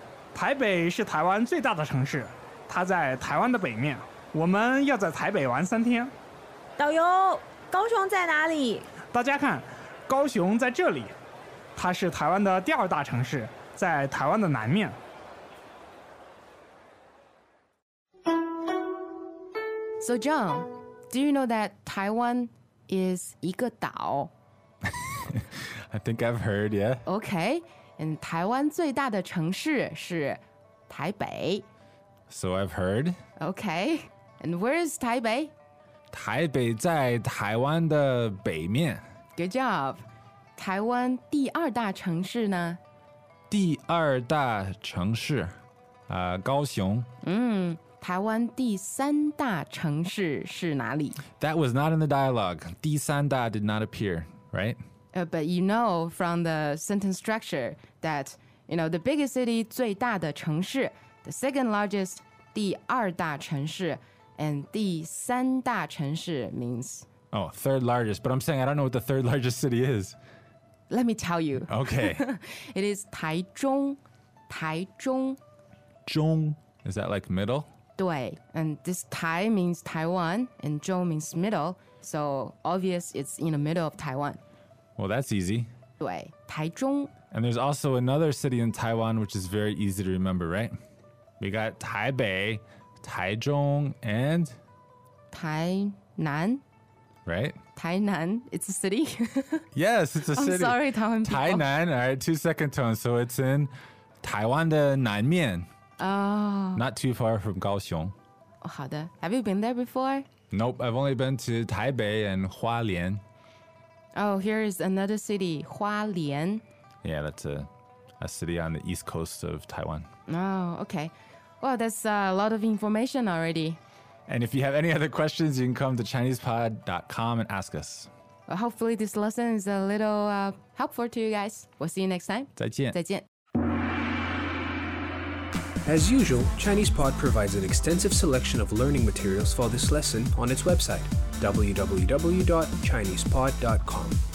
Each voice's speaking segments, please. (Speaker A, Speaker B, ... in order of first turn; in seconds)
Speaker A: 0.3-6.1, 9.1-11.2, 11.8-15.0
Speaker B: 6.8-9.0
Speaker C: 20.0-24.3, 27.1-31.7, 33.4-35.5, 39.4-40.0, 40.6-42.8, 47.2-51.2, 55.1-67.1, 70.9-75.4, 78.0-84.4, 86.0-87.1, 95.3-96.6, 97.8-99.7, 100.3-101.7, 106.0-106.8, 108.6-110.3, 114.1-116.6, 120.3-123.8, 128.5-133.2
Speaker D: 25.1-27.0, 32.3-33.2, 36.1-39.0, 43.5-45.5, 46.1-47.1, 51.4-54.8, 67.3-70.2, 71.7-72.2, 76.1-77.7, 85.0-85.7, 87.3-90.7, 91.4-94.6, 97.3-97.6, 99.7-105.7, 106.8-108.2, 110.5-113.2, 117.0-117.7, 118.2-120.1, 124.3-128.1, 132.6-133.0
Speaker E: 135.8-144.2